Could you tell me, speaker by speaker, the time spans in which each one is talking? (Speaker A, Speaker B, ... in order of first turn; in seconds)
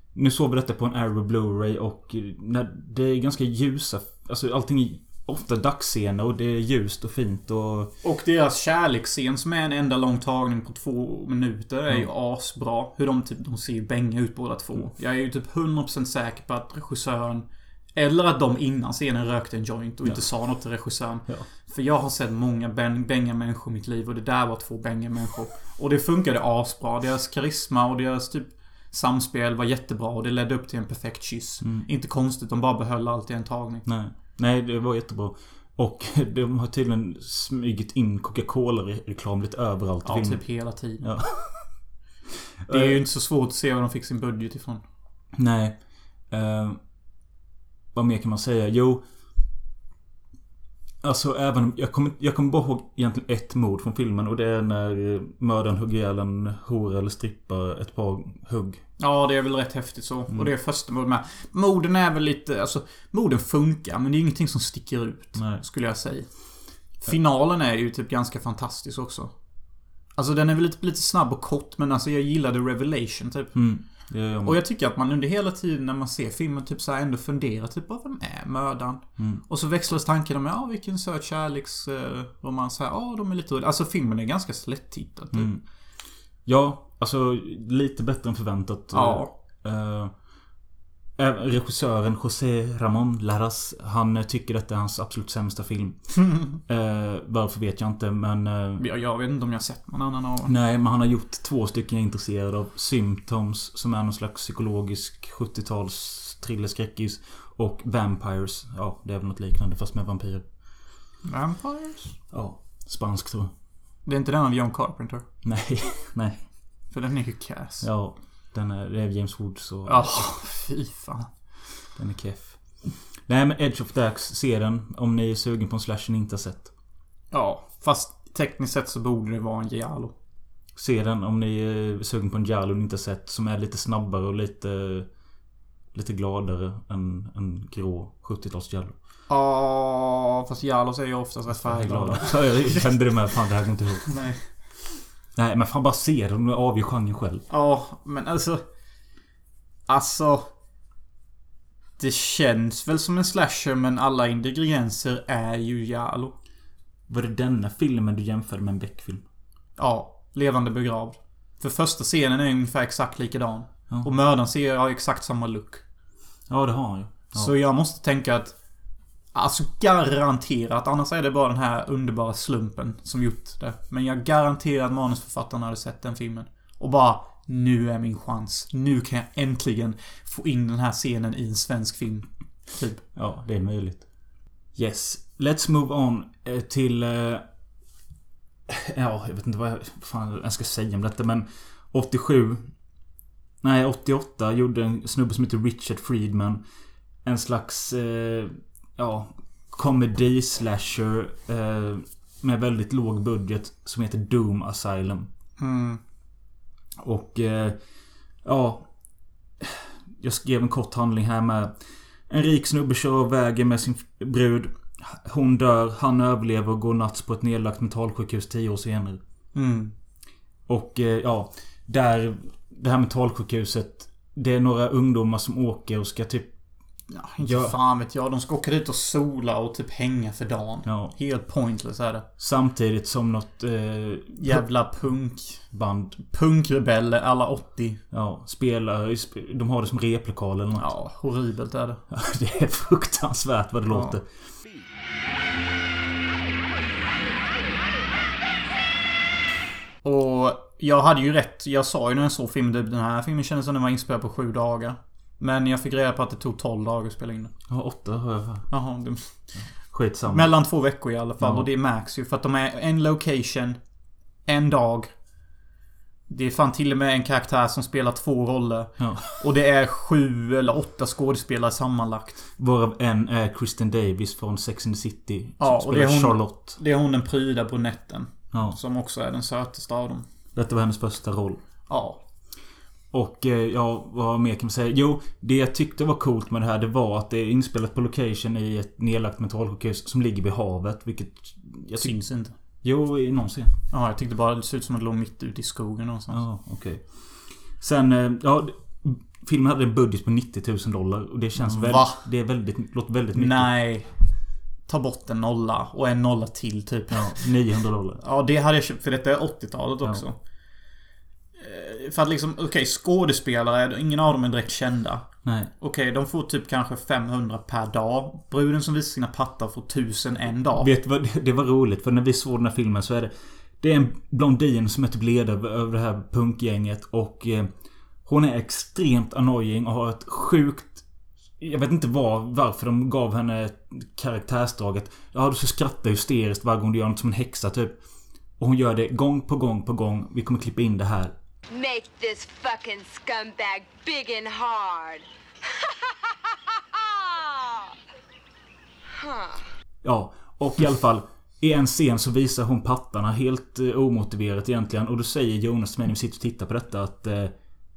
Speaker A: 0.1-7.9, 31.6-31.9, 33.8-41.8, 42.6-43.0, 45.4-46.8, 47.9-49.0, 51.0-58.8, 65.3-65.6, 73.5-74.6, 85.3-85.6, 86.5-90.1, 91.2-98.8, 100.5-110.5, 112.3-113.5, 115.4-116.5, 117.8-120.2, 122.0-126.7, 130.8-135.1, 135.9-138.9, 141.6-144.1, 145.3-147.4, 157.1-159.2, 166.5-167.5, 183.1-184.1, 184.7-187.4, 188.7-192.7, 193.6-196.6, 197.2-205.3, 207.0-207.8, 208.4-208.9, 209.6-211.7, 212.3-219.2, 220.7-226.5, 227.4-227.7, 230.8-231.1, 232.4-234.6, 235.7-236.2, 238.1-240.9, 242.1-244.3, 257.7-258.7, 259.6-260.5, 261.4-261.7, 269.0-269.4, 272.6-276.8, 280.5-281.6, 283.1-293.7, 296.3-303.7, 307.1-308.2, 315.4-315.7, 320.8-327.7, 328.2-331.0, 331.6-338.0, 338.6-341.3, 350.0-357.5
Speaker B: 8.0-33.9, 40.0-41.1, 42.7-44.8, 59.0-66.3, 67.0-69.3, 70.1-73.6, 74.4-85.5, 88.9-89.3, 96.2-96.5, 98.8-100.5, 111.2-112.2, 114.0-115.2, 116.9-117.9, 119.8-121.3, 127.3-130.1, 139.3-143.0, 144.0-144.4, 147.5-148.6, 149.9-150.5, 152.0-156.3, 159.8-165.8, 167.3-168.5, 169.3-183.0, 205.6-206.0, 219.5-219.9, 227.1-232.2, 234.3-235.6, 236.2-238.0, 240.8-242.0, 243.9-244.2, 250.0-257.5, 258.7-259.3, 260.2-263.8, 264.4-265.1, 266.3-272.4, 275.6-280.2, 281.9-282.2, 292.0-292.5, 293.9-296.4, 301.6-302.3, 303.3-304.2, 304.9-307.5, 308.2-310.4, 311.6-320.9
Speaker C: 341.7-345.2, 346.9-347.9, 349.1-349.6